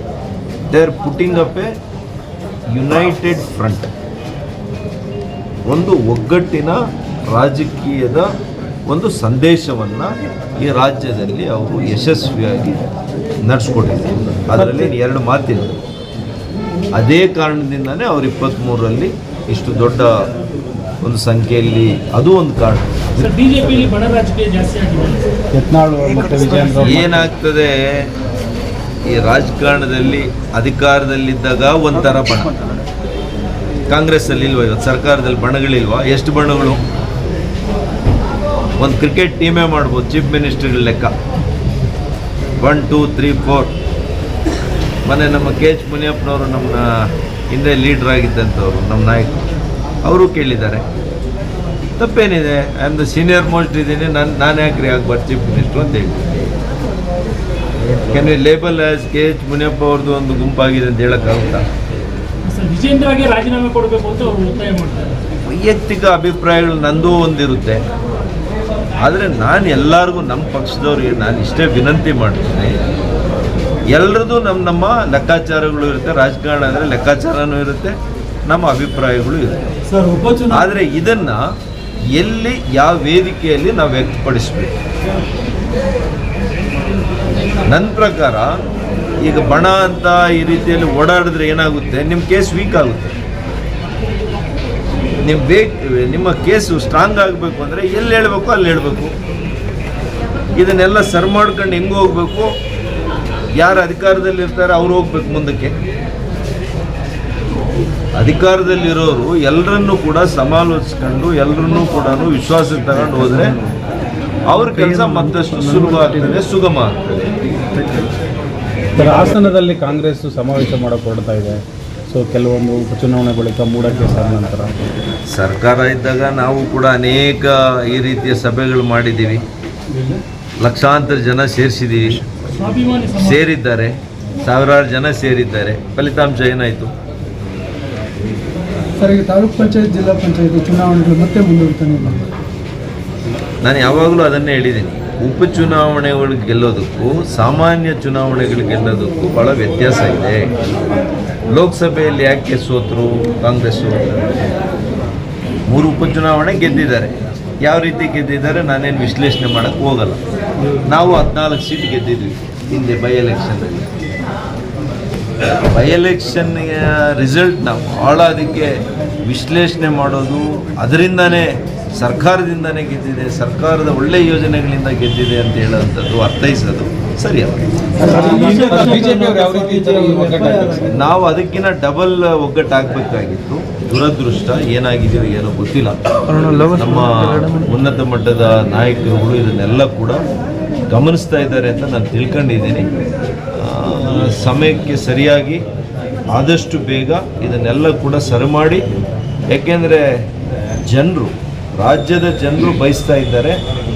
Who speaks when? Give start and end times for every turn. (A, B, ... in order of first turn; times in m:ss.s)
0:00.7-0:01.7 A
0:02.7-0:03.9 A
0:05.7-0:06.8 A
0:07.3-0:08.3 A
0:08.9-0:12.8 A
0:13.4-0:15.8 A
0:17.0-0:20.3 A
0:21.0-0:23.3 A
0:23.2-0:25.3 B
0:25.5-0:27.3 C
0:26.2-0:26.7 D
0:26.8-0:28.0 A
0:29.1-0:32.5 A
0:33.9-0:36.8 A
0:38.8-0:41.1 A
0:42.6-0:43.7 A
0:45.0-0:46.8 A
0:47.5-0:49.4 A
0:50.0-0:50.8 A
0:52.0-0:56.5 A
0:57.9-1:01.6 A
1:02.4-1:05.2 B
1:05.4-1:07.8 A
1:09.0-1:12.8 A
1:13.9-1:17.9 A
1:18.4-1:19.6 A
1:19.9-1:20.7 D
1:20.5-1:21.5 A
1:22.1-1:24.7 A
1:27.6-1:28.5 A
1:29.2-1:33.1 A
1:35.2-1:39.1 A
1:40.6-1:42.5 A
1:43.6-1:45.7 A
1:48.2-1:53.6 A
1:54.5-1:57.3 A
1:59.0-2:01.6 C
2:02.1-2:04.7 C
2:05.3-2:09.4 A
2:09.9-2:10.2 D
2:10.6-2:12.3 A
2:12.5-2:13.4 B
2:13.2-2:16.9 A
2:19.0-2:22.2 D
2:23.6-2:30.5 A
2:31.5-2:34.3 A
2:35.7-2:40.2 A
2:40.9-2:43.9 A
2:45.7-2:57.6 A
2:58.0-3:01.0 D
2:58.0-3:00.9 C
3:00.9-3:10.2 A
3:10.9-3:12.9 A
3:13.6-3:15.6 A
3:16.3-3:18.8 A
3:19.5-3:20.1 A
3:20.8-3:23.6 A